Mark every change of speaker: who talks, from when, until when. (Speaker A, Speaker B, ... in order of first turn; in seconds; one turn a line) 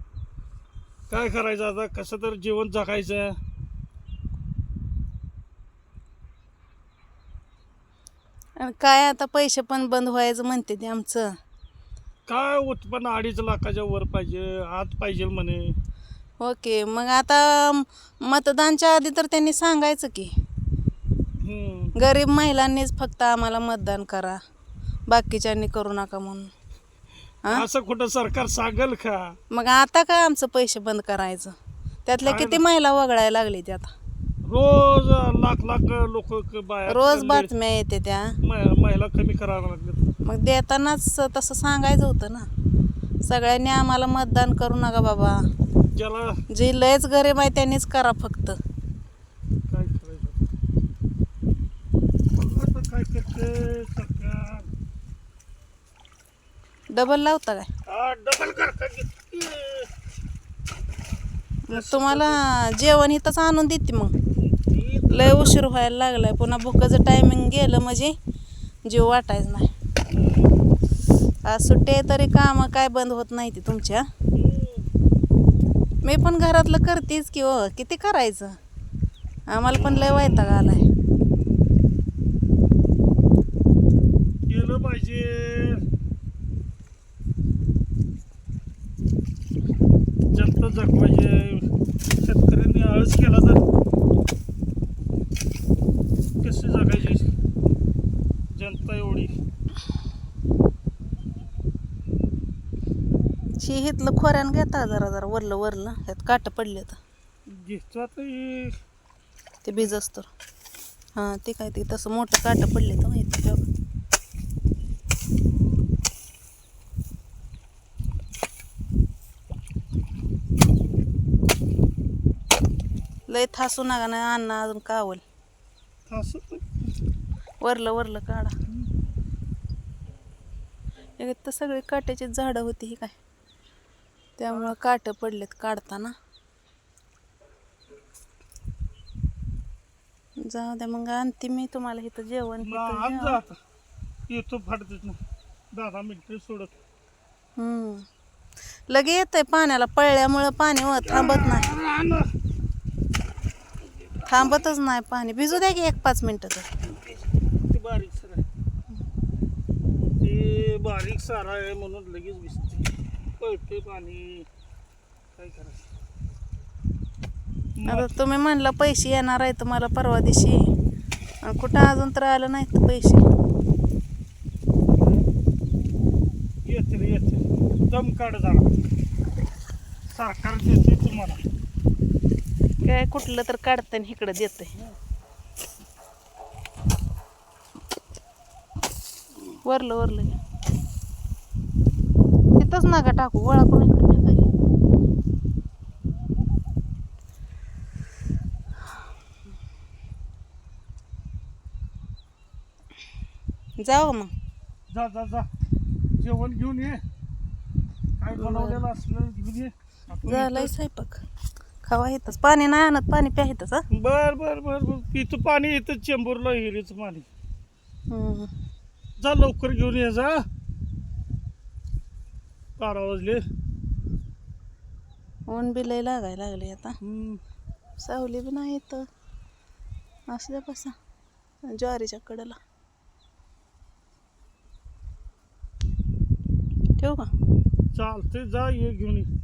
Speaker A: 1.1-3.4
Speaker B: 8.6-11.3
Speaker A: 12.3-15.8
Speaker B: 16.4-20.3
Speaker A: 21.4-21.9
Speaker B: 21.9-24.4
Speaker B: 25.1-26.5
Speaker A: 27.5-29.4
Speaker B: 29.5-31.5
Speaker B: 32.0-33.9
Speaker A: 32.2-32.6
Speaker A: 34.5-37.5
Speaker B: 36.9-38.3
Speaker A: 38.4-40.2
Speaker B: 40.2-42.5
Speaker B: 43.2-45.4
Speaker A: 45.9-46.4
Speaker B: 46.5-48.6
Speaker A: 49.7-50.4
Speaker A: 52.3-54.7
Speaker B: 56.9-57.7
Speaker A: 57.9-59.9
Speaker B: 61.7-64.1
Speaker A: 61.7-62.4
Speaker A: 64.5-65.5
Speaker B: 65.1-68.2
Speaker B: 68.8-69.7
Speaker A: 70.1-70.5
Speaker B: 71.4-74.0
Speaker A: 74.3-74.8
Speaker B: 76.0-78.6
Speaker B: 79.5-80.8
Speaker A: 79.7-80.5
Speaker A: 84.5-85.8
Speaker A: 90.3-93.6
Speaker A: 96.4-97.3
Speaker A: 98.5-99.3
Speaker B: 103.6-107.0
Speaker A: 107.5-108.7
Speaker B: 109.6-110.3
Speaker B: 111.2-113.6
Speaker B: 123.3-125.2
Speaker A: 126.1-126.8
Speaker B: 127.6-128.5
Speaker B: 131.2-133.1
Speaker B: 134.4-136.1
Speaker A: 134.5-134.7
Speaker B: 140.4-143.4
Speaker A: 142.6-143.6
Speaker A: 144.3-145.2
Speaker A: 145.7-146.7
Speaker B: 147.6-148.1
Speaker B: 148.9-151.7
Speaker A: 151.0-152.3
Speaker A: 154.0-154.6
Speaker B: 154.3-156.7
Speaker A: 156.9-158.4
Speaker A: 160.2-164.5
Speaker A: 165.3-165.8
Speaker A: 167.8-168.1
Speaker B: 167.9-170.6
Speaker B: 171.4-173.2
Speaker A: 174.9-175.2
Speaker A: 176.6-178.7
Speaker A: 180.1-181.4
Speaker B: 182.8-184.7
Speaker B: 189.6-190.4
Speaker B: 192.6-194.5
Speaker B: 203.8-204.3
Speaker A: 204.9-205.5
Speaker A: 206.2-207.0
Speaker A: 208.2-210.7
Speaker B: 208.3-208.8
Speaker B: 210.2-211.2
Speaker B: 211.8-213.8
Speaker A: 213.9-217.3
Speaker B: 218.1-218.5
Speaker A: 219.2-220.4
Speaker A: 222.8-223.4
Speaker B: 225.5-227.0
Speaker A: 227.0-227.4
Speaker B: 228.0-229.0
Speaker B: 230.3-230.9
Speaker B: 231.6-232.6
Speaker B: 237.0-237.3
Speaker A: 237.9-239.3